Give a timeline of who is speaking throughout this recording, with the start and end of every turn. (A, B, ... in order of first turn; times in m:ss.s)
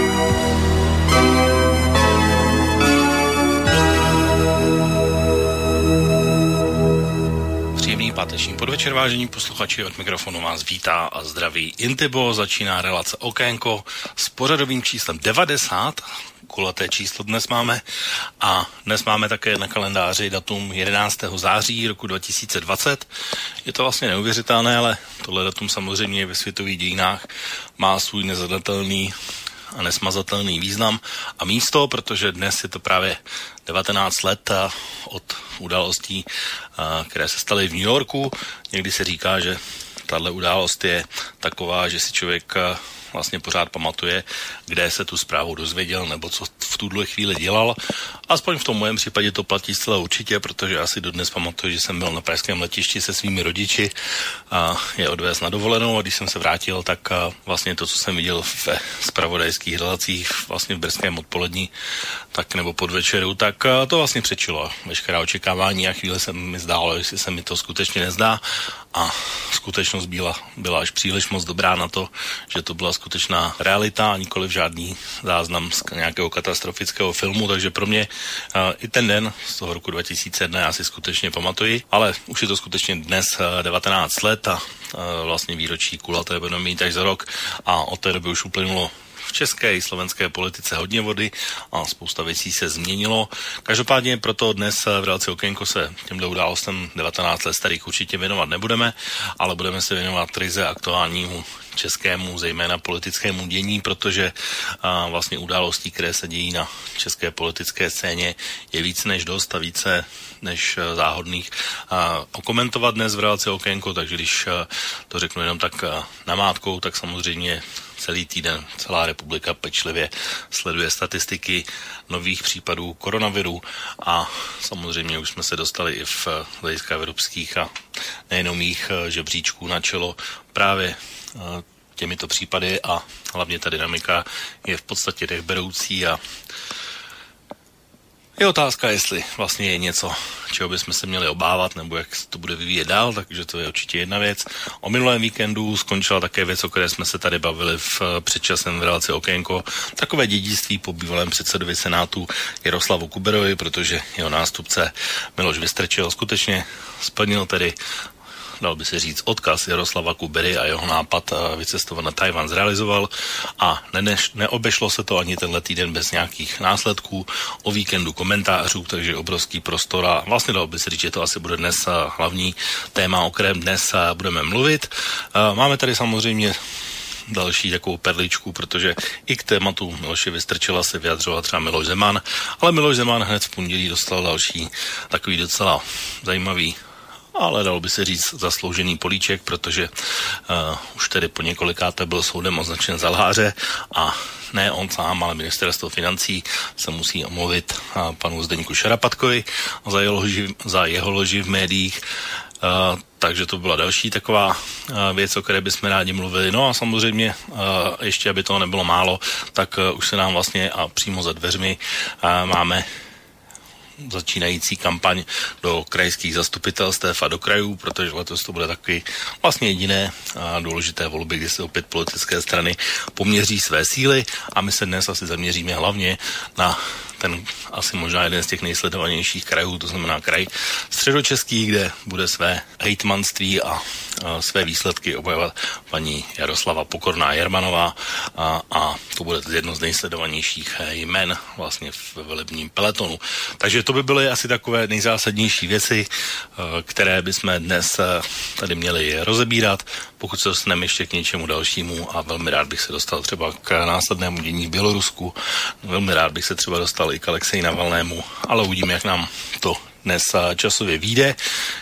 0:07.8-0:17.8 A
0:18.4-0:23.1 A
0:23.6-0:27.2 A
0:27.8-0:29.1 A
0:29.7-0:47.8 A
0:48.3-0:53.9 A
0:54.5-1:01.7 A
1:02.3-1:08.4 A
1:08.9-2:07.7 A
2:08.3-2:16.2 A
2:18.4-2:37.8 A
2:38.6-2:56.6 A
2:57.3-3:06.8 A
3:07.4-3:09.9 A
3:10.5-3:22.0 A
3:22.6-3:32.9 A
3:34.0-4:21.4 A